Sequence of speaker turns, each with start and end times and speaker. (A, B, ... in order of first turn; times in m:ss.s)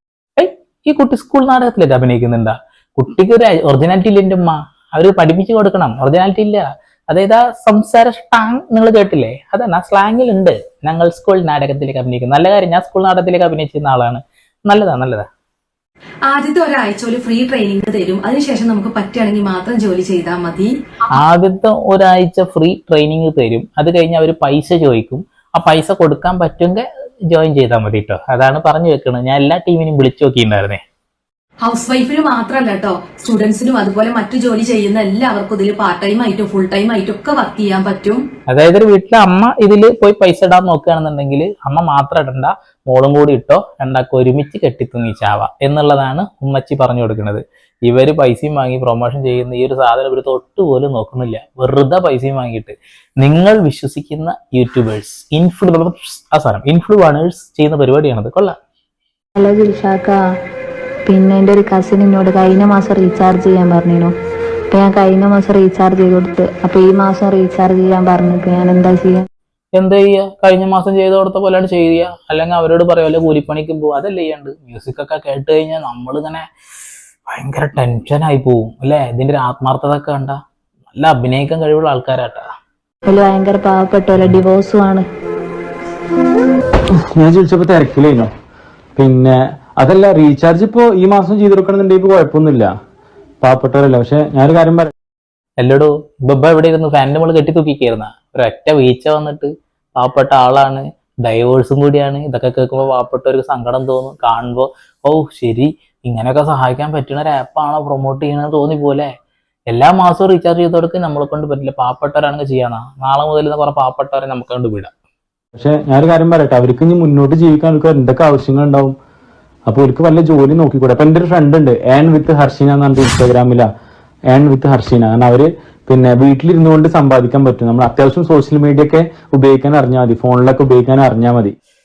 0:00.4-0:15.2 A
0:16.2-0:20.7 B
0:21.1-0:30.8 A
0:31.6-0:38.2 B
0:38.5-0:58.5 A
0:59.4-1:00.2 C
1:01.1-1:04.1 C
1:04.7-1:09.2 C
1:09.8-1:16.4 A
1:17.3-1:20.4 A
1:20.9-1:22.4 A
1:23.0-1:25.0 C
1:27.2-1:28.3 D
1:29.0-1:32.7 D
1:33.4-1:34.9 D
1:35.6-1:49.1 A
1:49.7-1:54.9 A
1:55.6-1:58.9 D
1:59.7-2:03.7 D
2:04.3-2:11.5 D